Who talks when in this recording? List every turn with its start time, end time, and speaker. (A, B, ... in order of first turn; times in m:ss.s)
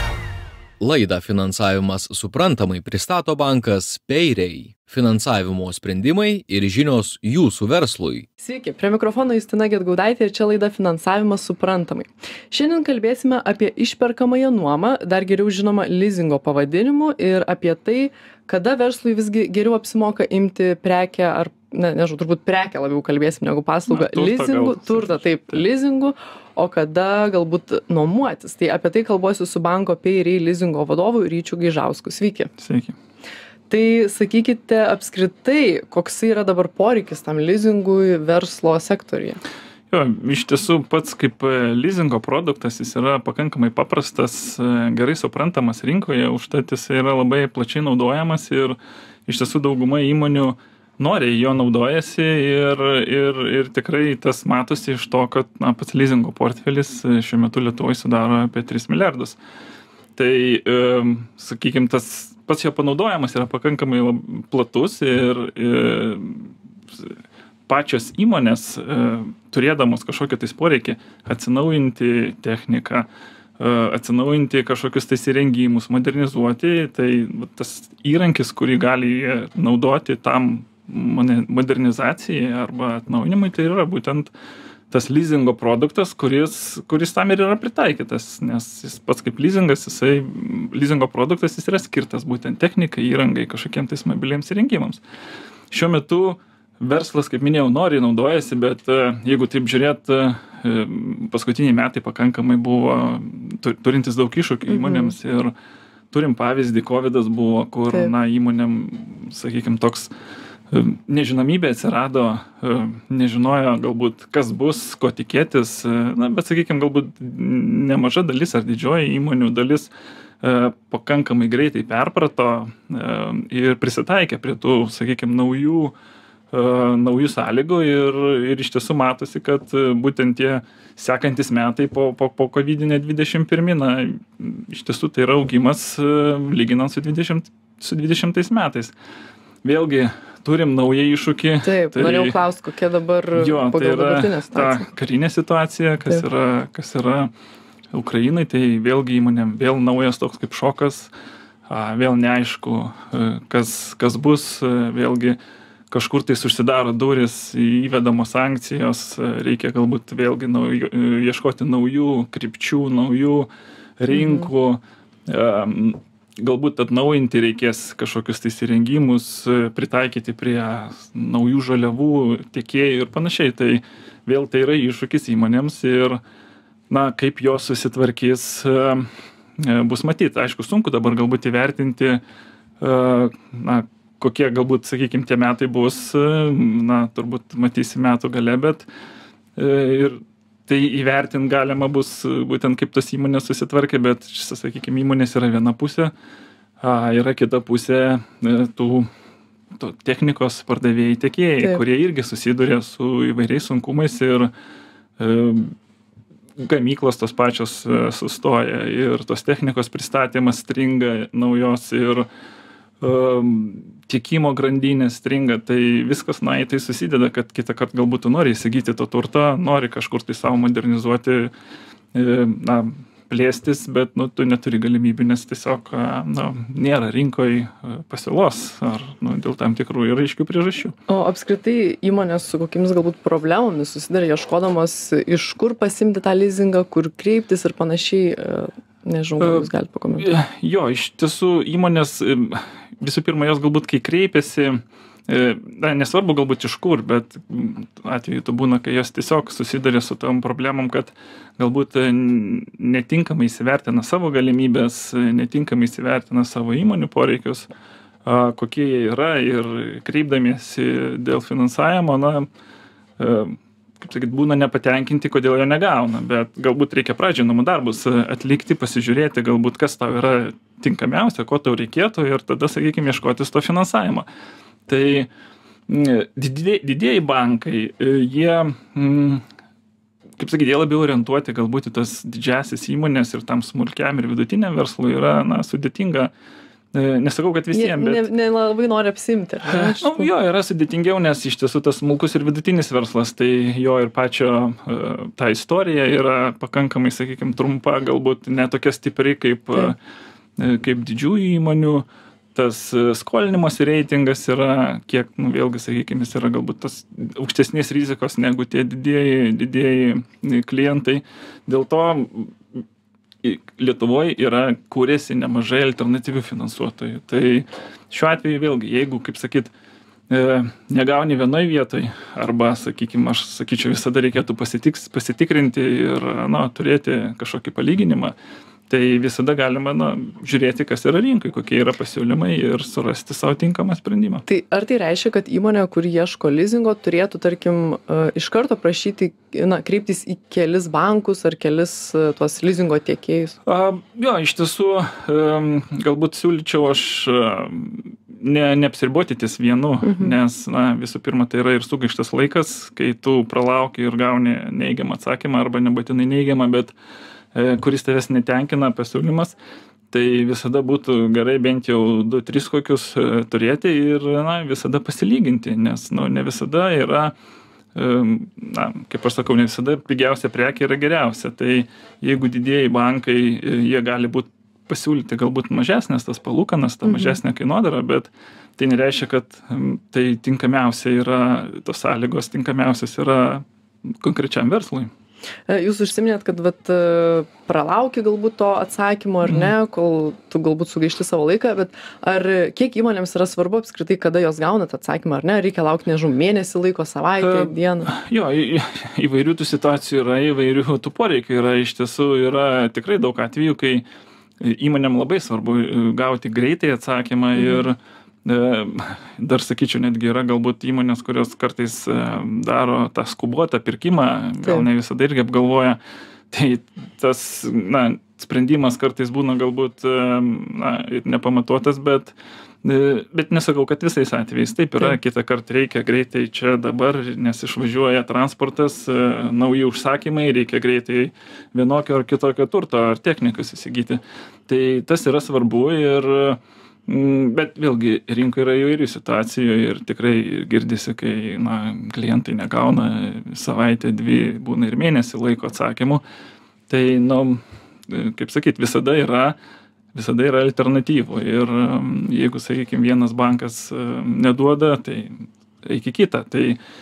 0:00.8-0:08.3 A
0:08.4-0:32.5 B
0:23.9-0:25.6 C
0:32.6-0:33.0 C
0:33.7-0:39.4 B
0:39.9-0:59.4 C
1:00.2-1:06.5 C
1:07.7-1:13.1 C
1:13.6-1:24.3 C
1:24.9-1:35.0 C
1:35.7-1:45.5 C
1:44.7-1:45.2 B
1:46.1-1:50.1 C
1:50.7-1:59.9 C
2:00.4-2:05.9 C
2:06.5-2:18.9 C
2:19.6-2:22.4 C
2:21.6-2:24.9 B
2:23.4-2:27.3 C
2:27.9-2:31.1 C
2:31.7-2:35.4 C
2:35.9-2:43.5 C
2:44.0-2:56.2 C
2:44.1-2:44.5 B
2:56.9-3:02.2 C
3:02.8-3:08.9 C
3:09.6-3:16.1 C
3:16.8-3:19.1 C
3:19.8-3:24.5 C
3:25.2-3:25.7 C
3:26.6-3:32.3 C
3:33.0-3:41.5 C
3:42.2-3:51.0 C
3:51.1-4:00.3 B
3:59.4-3:59.7 C
4:00.2-4:17.7 C
4:18.3-4:22.5 C
4:23.2-4:34.3 C
4:34.9-4:35.3 C
4:35.9-4:39.4 C
4:40.4-4:46.3 C
4:46.9-4:48.2 C
4:47.7-4:50.3 B
4:49.7-5:00.0 C
5:00.6-5:12.5 C
5:13.4-5:19.7 C
5:20.3-5:28.3 C
5:28.9-5:34.4 C
5:34.5-5:43.6 B
5:43.7-5:56.9 C
5:50.0-5:50.4 B
5:57.6-5:59.6 C
6:00.1-6:07.3 C
6:08.0-6:23.6 C
6:17.0-6:17.4 B
6:24.2-6:25.1 C
6:25.7-6:38.1 B
6:29.5-6:29.7 C
6:37.4-6:44.0 C
6:44.6-6:56.0 C
6:47.6-6:47.9 B
6:54.6-6:54.9 B
6:56.5-7:26.2 C
7:26.9-7:29.6 C
7:30.1-7:36.8 C